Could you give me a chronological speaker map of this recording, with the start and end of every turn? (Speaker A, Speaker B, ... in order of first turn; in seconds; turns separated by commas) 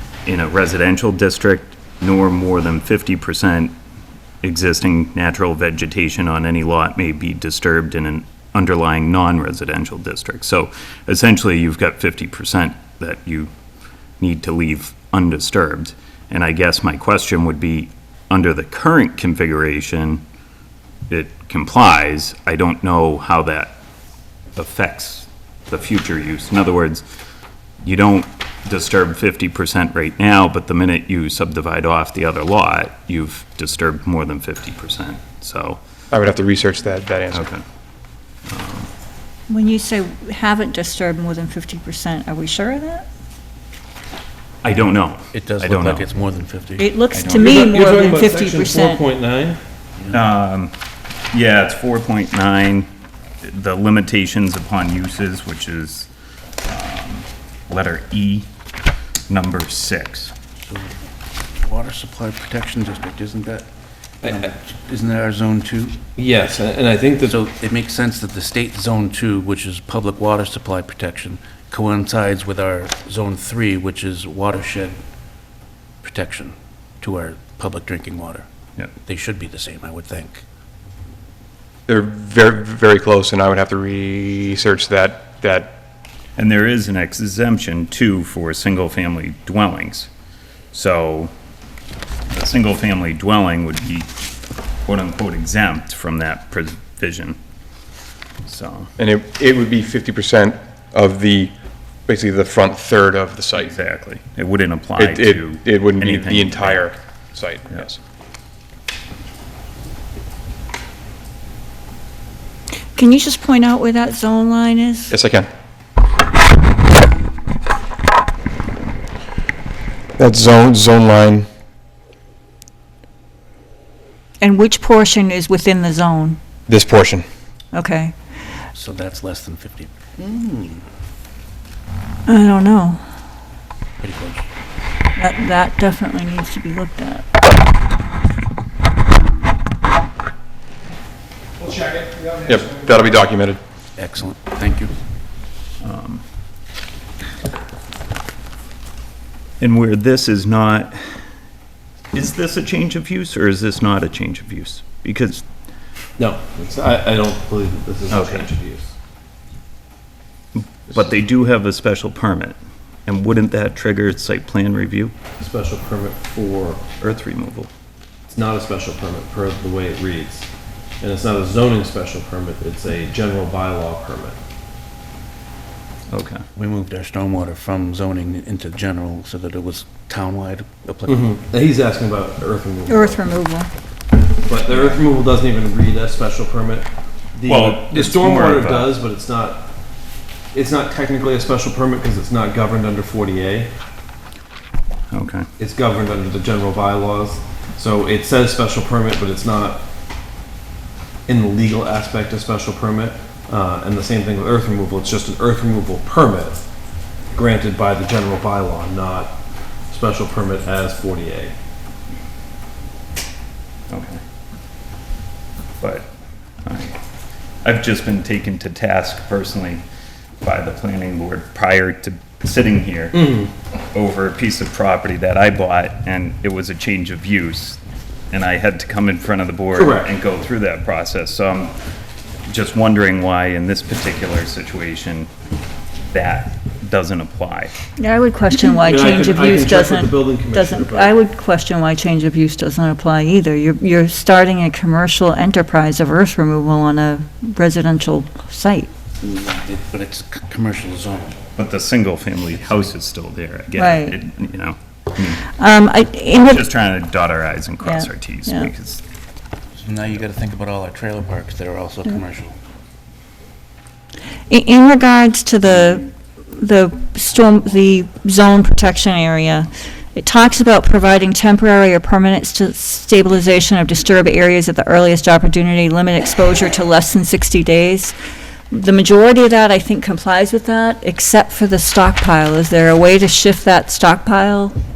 Speaker A: 0.3-3.7, Speaker A: 4.4-13.5, Speaker A: 14.2-20.2, Speaker A: 21.1-23.8, Speaker A: 24.6-27.0, Speaker A: 27.8-35.8, Speaker B: 36.1-37.5, Speaker A: 37.3-37.6, Speaker A: 38.5-38.9, Speaker C: 39.5-43.0, Speaker A: 44.6-46.1, Speaker D: 45.3-47.5, Speaker C: 46.8-49.0, Speaker E: 47.2-49.6, Speaker A: 50.1-50.7, Speaker A: 51.3-52.9, Speaker A: 53.4-56.1, Speaker A: 56.6-58.5, Speaker A: 59.3-60.3, Speaker D: 60.6-63.7, Speaker D: 64.2-66.0, Speaker E: 64.2-64.5, Speaker E: 66.2-67.5, Speaker D: 67.2-75.0, Speaker D: 76.0-78.5, Speaker D: 79.0-80.4, Speaker B: 81.9-85.8, Speaker A: 86.4-90.1, Speaker A: 90.7-91.3, Speaker A: 92.3-94.1, Speaker A: 94.9-97.4, Speaker A: 98.5-98.9, Speaker B: 99.0-101.5, Speaker B: 102.1-103.8, Speaker A: 103.5-106.9, Speaker B: 105.0-108.0, Speaker C: 113.0-115.1, Speaker B: 115.1-115.5, Speaker B: 120.2-121.5, Speaker C: 124.4-126.4, Speaker B: 126.7-127.2, Speaker C: 127.7-128.1, Speaker D: 128.8-130.8, Speaker C: 132.3-133.0, Speaker D: 134.0-134.5, Speaker C: 135.2-137.2, Speaker B: 142.4-143.6, Speaker D: 144.0-145.0, Speaker A: 145.8-146.2, Speaker A: 149.6-151.0, Speaker A: 152.1-155.4, Speaker E: 156.2-158.9, Speaker A: 158.1-158.5, Speaker A: 160.6-165.1, Speaker E: 165.4-166.8, Speaker A: 167.0-167.7, Speaker E: 168.3-170.5, Speaker E: 171.0-174.4, Speaker A: 176.1-176.4, Speaker D: 176.6-181.3, Speaker E: 181.1-183.2, Speaker C: 182.9-183.7, Speaker E: 184.5-189.7, Speaker A: 187.5-188.9, Speaker E: 190.5-193.7, Speaker A: 195.1-195.5, Speaker E: 195.6-199.8, Speaker E: 201.3-206.7, Speaker E: 207.3-209.4, Speaker E: 209.9-211.6, Speaker A: 213.9-214.2, Speaker A: 215.8-216.1, Speaker A: 216.7-217.0, Speaker A: 217.6-219.8, Speaker A: 220.4-223.2, Speaker E: 223.1-223.5, Speaker A: 223.9-227.8, Speaker A: 228.3-231.7, Speaker E: 229.8-230.1, Speaker A: 232.5-235.3, Speaker A: 236.1-237.7, Speaker C: 238.0-248.9, Speaker E: 238.8-241.1, Speaker D: 249.2-251.4, Speaker A: 251.6-255.5, Speaker C: 253.8-254.2, Speaker C: 255.6-256.6, Speaker A: 256.4-259.0, Speaker C: 257.8-258.7, Speaker D: 259.8-262.6, Speaker C: 264.5-278.1, Speaker C: 278.7-284.8